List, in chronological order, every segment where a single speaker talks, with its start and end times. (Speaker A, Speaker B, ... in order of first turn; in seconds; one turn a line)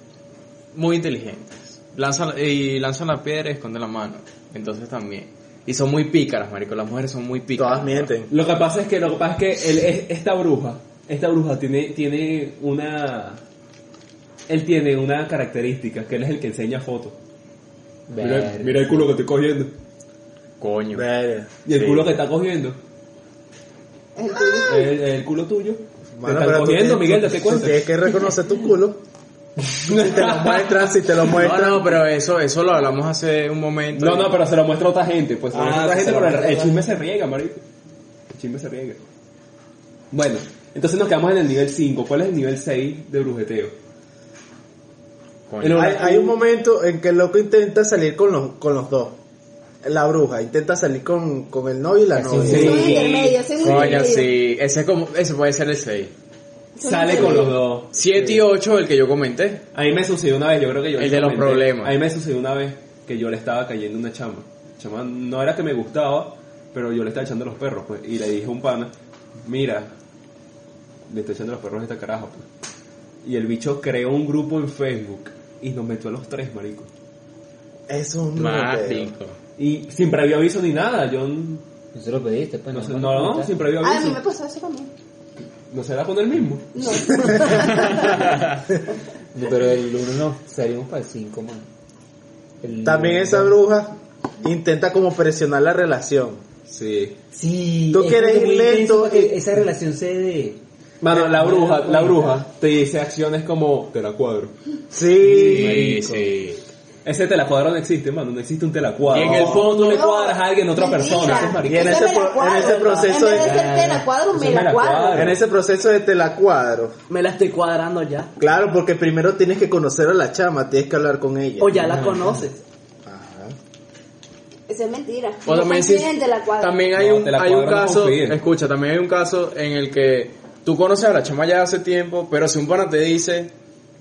Speaker A: 0.7-8.1
Speaker B: 7.6-8.3
Speaker C: 8.3-13.4
Speaker C: 14.5-17.1
Speaker D: 18.1-19.1
Speaker C: 18.2-19.7
Speaker A: 20.6-21.0
Speaker B: 20.9-21.5
Speaker C: 21.6-22.8
Speaker A: 21.7-22.2
Speaker E: 24.1-24.9
Speaker C: 24.7-27.9
Speaker B: 26.1-29.0
Speaker C: 29.6-30.8
Speaker B: 29.9-31.9
Speaker A: 31.3-34.4
Speaker C: 33.9-37.6
Speaker B: 35.5-36.8
Speaker C: 38.3-39.0
Speaker C: 40.1-43.7
Speaker A: 45.5-45.9
Speaker C: 45.6-46.4
Speaker B: 45.7-49.1
Speaker B: 49.8-53.0
Speaker D: 52.1-52.9
Speaker C: 52.3-53.4
Speaker E: 52.5-54.4
Speaker A: 53.5-56.1
Speaker E: 56.7-57.6
Speaker C: 56.8-58.3
Speaker A: 57.9-59.6
Speaker C: 59.7-68.9
Speaker A: 61.0-62.0
Speaker C: 69.5-69.9
Speaker C: 71.1-72.4
Speaker C: 73.2-76.9
Speaker B: 77.9-79.1
Speaker A: 78.3-79.3
Speaker C: 79.6-81.6
Speaker D: 81.9-83.5
Speaker C: 82.7-84.2
Speaker E: 83.8-84.9
Speaker C: 85.7-86.7
Speaker E: 86.7-88.2
Speaker A: 87.6-88.6
Speaker D: 89.3-91.7
Speaker D: 92.6-93.6
Speaker B: 92.8-96.4
Speaker C: 96.7-97.2
Speaker D: 97.3-100.6
Speaker B: 97.9-99.4
Speaker C: 101.0-104.5
Speaker D: 101.1-102.4
Speaker B: 104.9-105.9
Speaker D: 105.2-106.3
Speaker A: 105.3-106.6
Speaker C: 107.0-112.1
Speaker A: 109.0-109.9
Speaker E: 109.5-115.3
Speaker B: 111.6-113.6
Speaker D: 113.2-114.1
Speaker C: 114.3-115.4
Speaker B: 115.1-116.9
Speaker F: 117.1-118.3
Speaker B: 118.4-121.7
Speaker F: 121.6-122.6
Speaker D: 121.7-122.5
Speaker B: 123.0-123.5
Speaker E: 124.7-126.9
Speaker A: 125.4-133.5
Speaker C: 126.9-128.4